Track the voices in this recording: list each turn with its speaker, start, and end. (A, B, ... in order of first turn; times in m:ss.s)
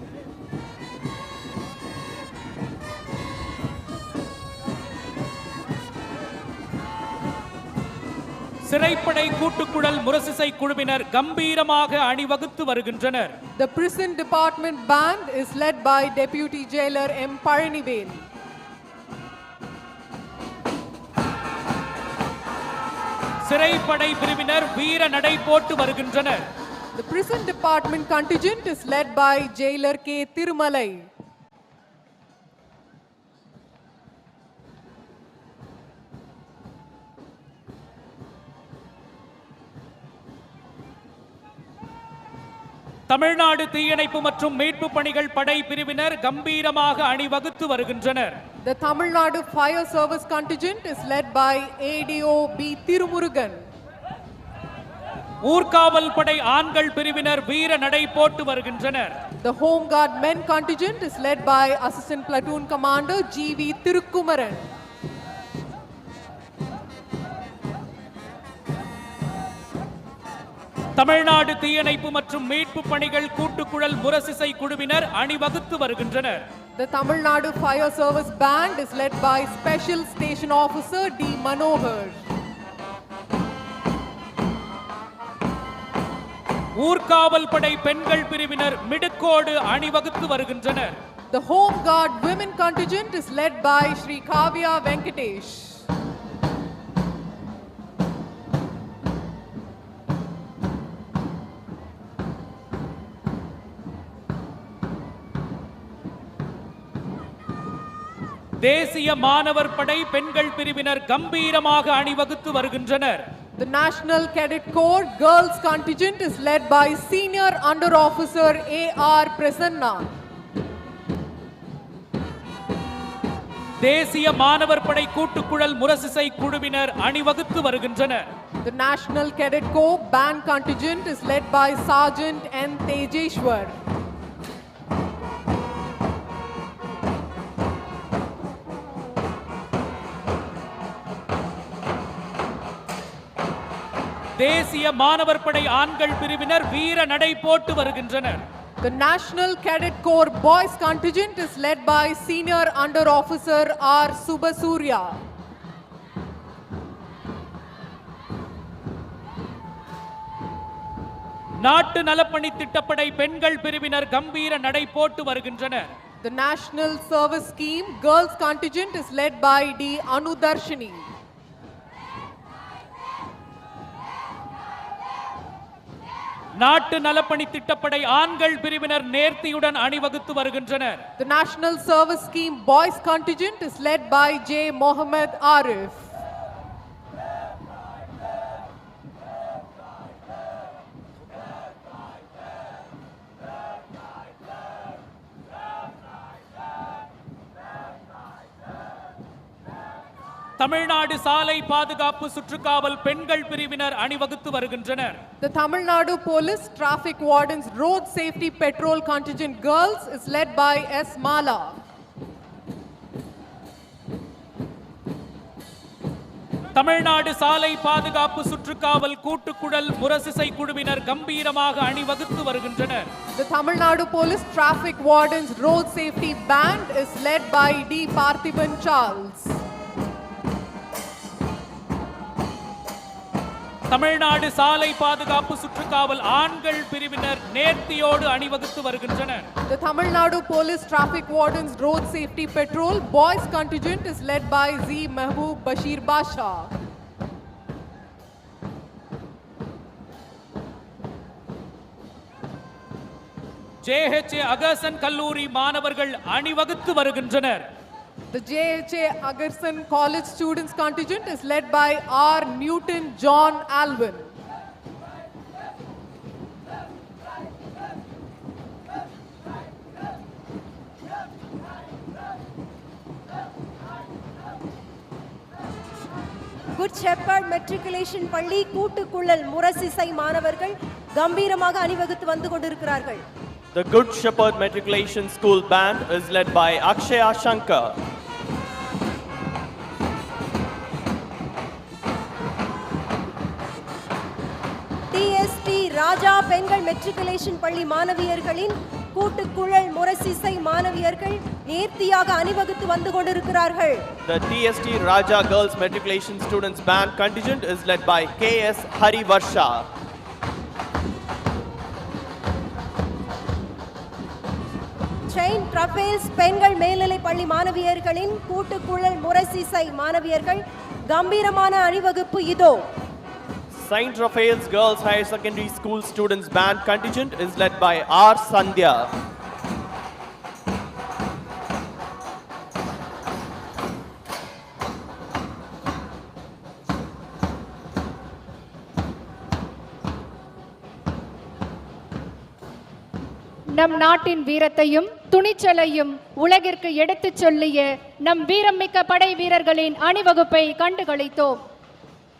0:08.6-0:13.3 A
0:13.6-0:18.3 B
0:23.4-0:26.4 A
0:26.9-0:31.1 B
0:43.1-0:48.4 A
0:48.6-0:53.7 B
0:55.4-0:59.1 A
0:59.4-1:04.7 B
1:11.0-1:16.4 A
1:16.8-1:22.2 B
1:26.8-1:31.0 A
1:31.3-1:35.8 B
1:48.6-1:53.2 A
1:53.6-2:00.1 B
2:03.8-2:08.2 A
2:08.6-2:13.8 B
2:24.4-2:28.4 A
2:28.8-2:35.1 B
2:41.6-2:45.9 A
2:46.2-2:51.1 B
2:56.6-3:01.0 A
3:01.2-3:06.1 B
3:20.6-3:25.2 A
3:25.4-3:31.7 B
3:36.8-3:43.1 A
3:43.3-3:49.6 B
3:53.9-3:59.5 A
3:59.7-4:06.7 B
4:13.8-4:17.6 A
4:18.3-4:24.3 B
4:36.8-4:43.2 C
4:43.7-4:47.9 D
4:55.1-5:04.0 C
5:04.2-5:09.9 D
5:15.3-5:22.9 C
5:23.7-5:29.1 D
5:43.7-5:51.6 E